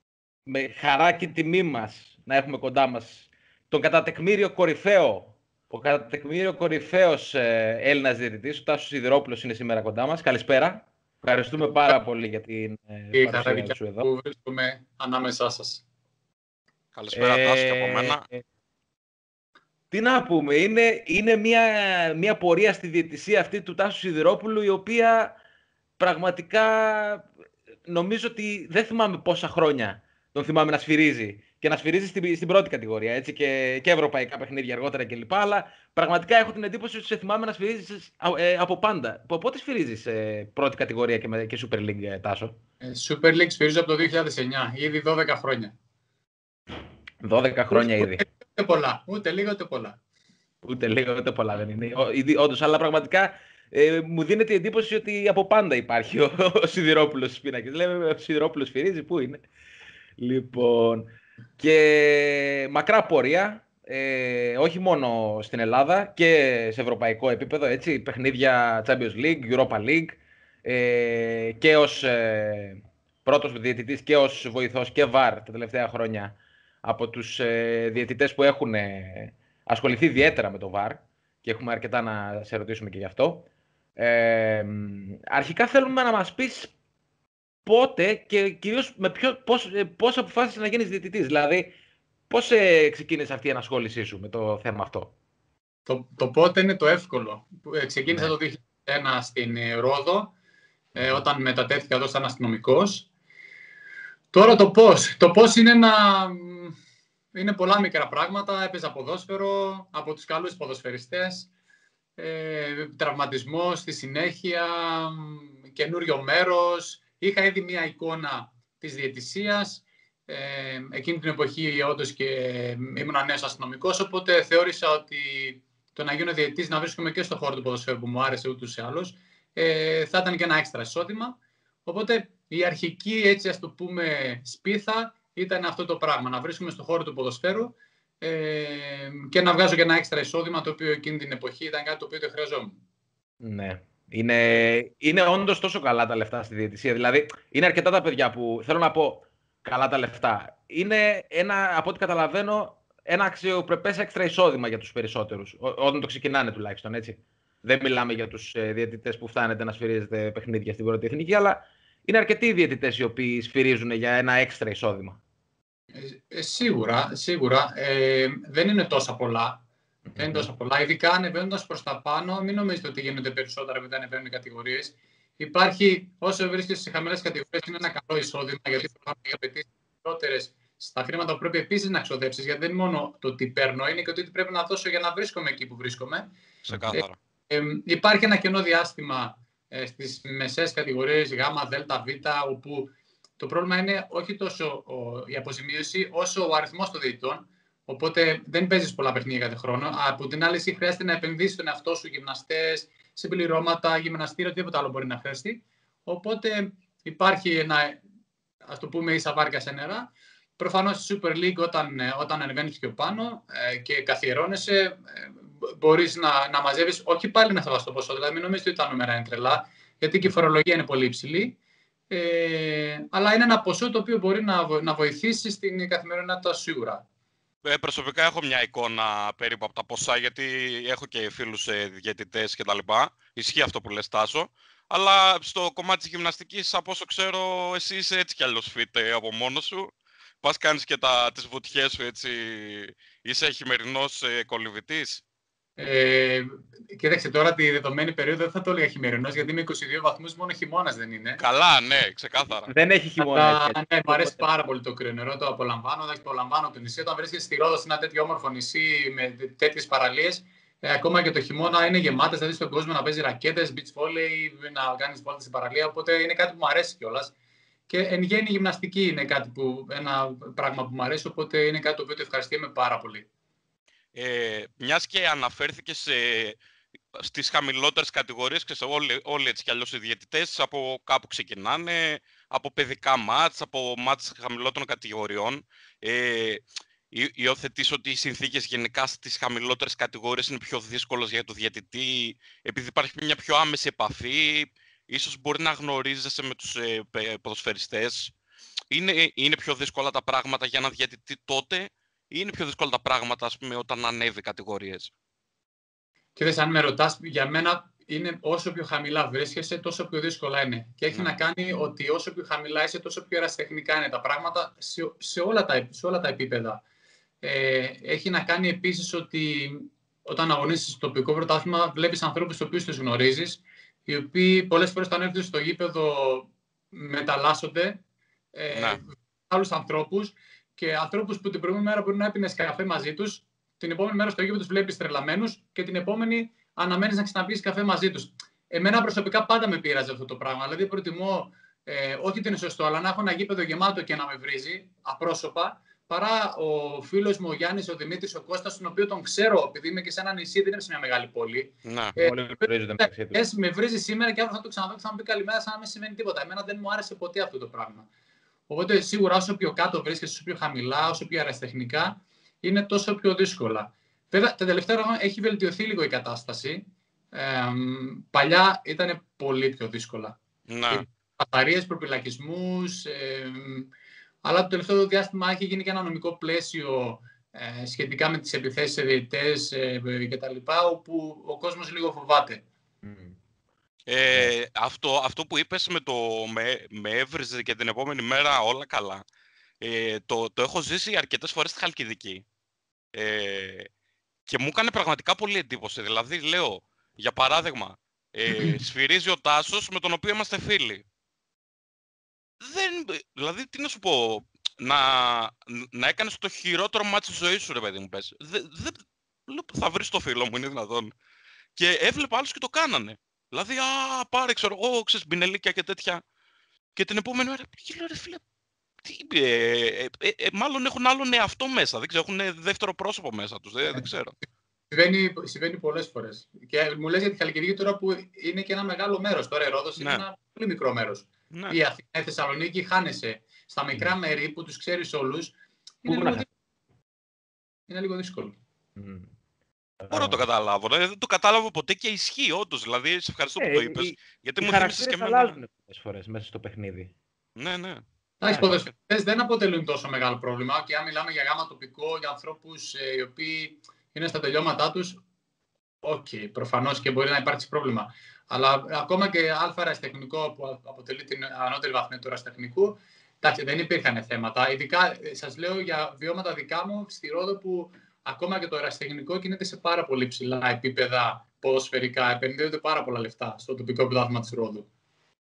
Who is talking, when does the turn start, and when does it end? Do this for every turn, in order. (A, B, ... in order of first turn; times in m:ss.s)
0:00.5-0:14.1 A
0:13.1-0:15.8 B
0:16.9-0:18.2 C
0:17.1-0:18.4 A
0:19.9-0:25.4 A
0:26.0-0:27.3 A
0:27.9-0:42.6 A
0:42.8-0:45.7 B
0:47.2-0:48.2 A
0:47.7-0:50.0 B
0:50.6-0:59.4 A
1:00.2-1:26.7 A
1:27.6-1:31.7 A
1:32.3-1:35.1 A
1:35.9-1:40.3 B
1:41.0-1:43.1 B
1:44.3-1:46.8 B
1:47.3-1:51.5 B
1:52.2-2:22.8 B
2:23.4-2:45.2 A
2:45.9-2:49.6 B
2:50.1-2:50.5 A
2:50.2-3:06.3 B
3:06.7-3:07.2 C
3:06.9-3:28.0 B
3:28.7-3:41.6 B
3:42.1-3:47.0 B
3:47.6-4:05.2 C
4:05.8-4:11.4 B
4:11.4-4:12.7 C
4:12.7-4:14.4 A
4:13.2-4:27.3 B
4:27.9-4:33.3 B
4:34.1-4:36.6 C
4:37.2-4:58.3 C
4:58.9-5:05.1 C
5:06.4-5:16.8 B
5:17.4-5:28.0 B
5:28.5-5:58.1 B
5:28.7-5:29.0 C
5:51.8-5:52.2 C
5:52.2-5:53.4 A
5:58.7-6:06.8 B
6:07.3-6:10.4 B
6:10.7-6:11.1 C
6:10.9-6:13.9 B
6:14.4-6:22.6 B
6:23.0-6:23.4 A
6:24.1-6:29.2 C
6:29.8-6:32.4 C
6:33.2-6:33.9 C
6:34.5-6:41.0 C
6:42.6-6:51.1 C
6:51.8-6:56.2 C
6:57.0-6:58.4 C
6:59.0-7:04.3 C
7:04.9-7:16.5 B
7:10.0-7:10.2 C
7:11.5-7:11.8 C
7:16.1-7:16.5 A
7:17.9-7:18.6 B
7:19.0-7:19.3 A
7:20.0-7:20.4 A
7:20.1-7:25.6 C
7:23.6-7:27.1 A
7:27.6-7:28.0 C
7:28.4-7:35.2 B
7:36.0-7:54.9 B